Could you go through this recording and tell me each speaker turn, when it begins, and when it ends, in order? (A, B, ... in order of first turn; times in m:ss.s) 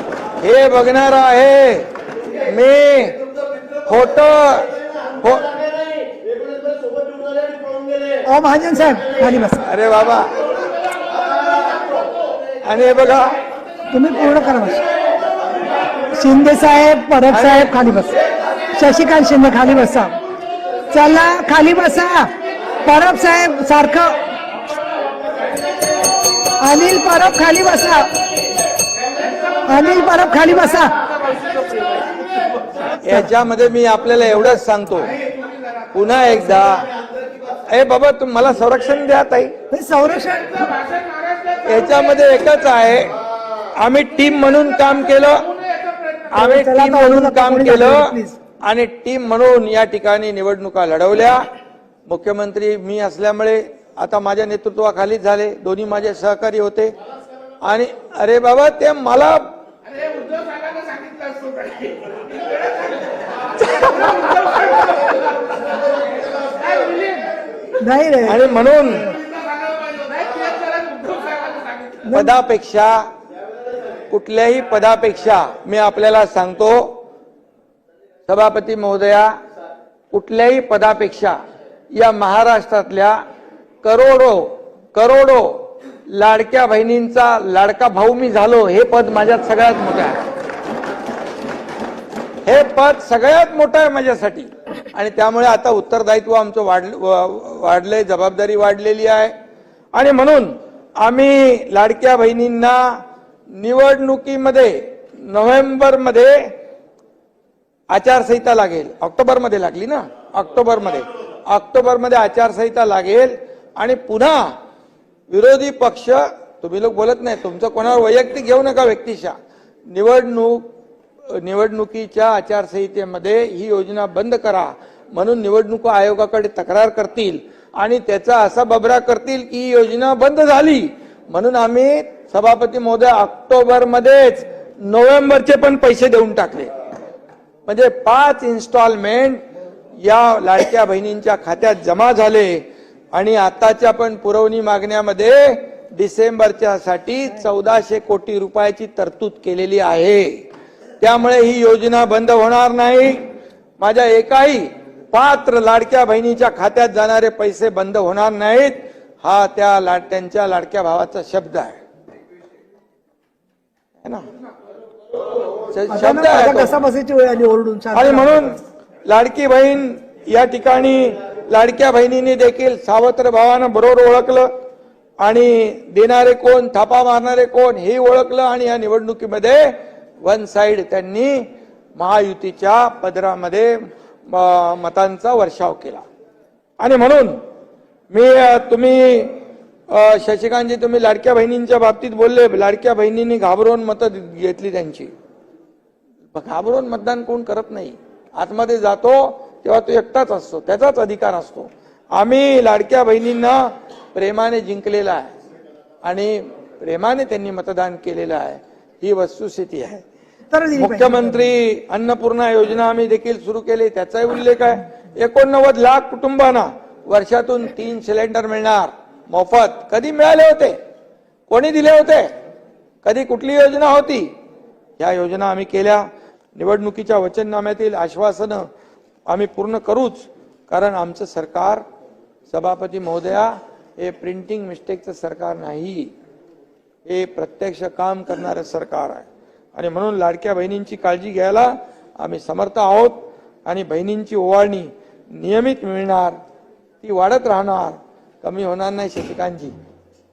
0:00.4-0:01.9 A
0:02.5-0:03.2 A
0:03.9-0:05.5 A
0:08.3-0:09.7 B
0:09.7-0:10.3 A
0:12.6-0:13.4 A
0:13.9-0:14.8 B
0:16.1-0:18.2 B
0:17.3-0:17.8 A
0:18.7-0:20.2 B
0:20.9-0:22.3 B
0:22.8-0:24.2 B
0:26.6-0:28.1 B
0:29.6-0:31.0 B
0:33.0-0:35.1 A
0:35.9-0:36.9 A
0:37.7-0:39.5 A
0:39.7-0:40.8 B
0:41.6-0:43.1 A
0:43.8-0:45.5 A
0:46.3-0:48.4 B
0:46.3-0:51.5 A
0:52.1-0:56.9 A
0:57.6-0:59.6 A
1:03.7-1:04.3 B
1:07.8-1:09.2 B
1:08.2-1:09.1 A
1:12.0-1:12.3 B
1:12.1-1:13.0 A
1:14.1-1:17.0 A
1:18.3-1:19.3 A
1:20.1-1:21.4 A
1:21.9-1:23.2 A
1:23.8-1:30.3 A
1:32.4-1:39.3 A
1:40.0-1:42.8 A
1:43.6-1:46.4 A
1:47.9-1:54.5 A
1:55.3-1:59.4 A
1:59.9-2:00.6 A
2:01.3-2:16.7 A
2:17.7-2:19.4 A
2:20.0-2:22.6 A
2:23.1-2:30.3 A
2:31.0-2:33.2 A
2:33.8-2:41.8 A
2:45.7-2:46.7 A
2:45.9-2:48.6 B
2:47.9-2:54.5 A
2:55.2-2:59.7 A
3:00.2-3:03.7 A
3:04.3-3:06.0 A
3:06.8-3:07.4 A
3:08.1-3:09.4 A
3:09.9-3:15.1 A
3:16.3-3:25.3 A
3:26.0-3:30.1 A
3:30.5-3:31.3 B
3:30.7-3:40.8 A
3:41.5-3:42.3 A
3:43.0-3:44.3 A
3:45.0-3:48.7 A
3:49.3-3:51.8 A
3:52.5-3:56.1 A
3:57.1-4:06.4 A
4:07.0-4:09.7 A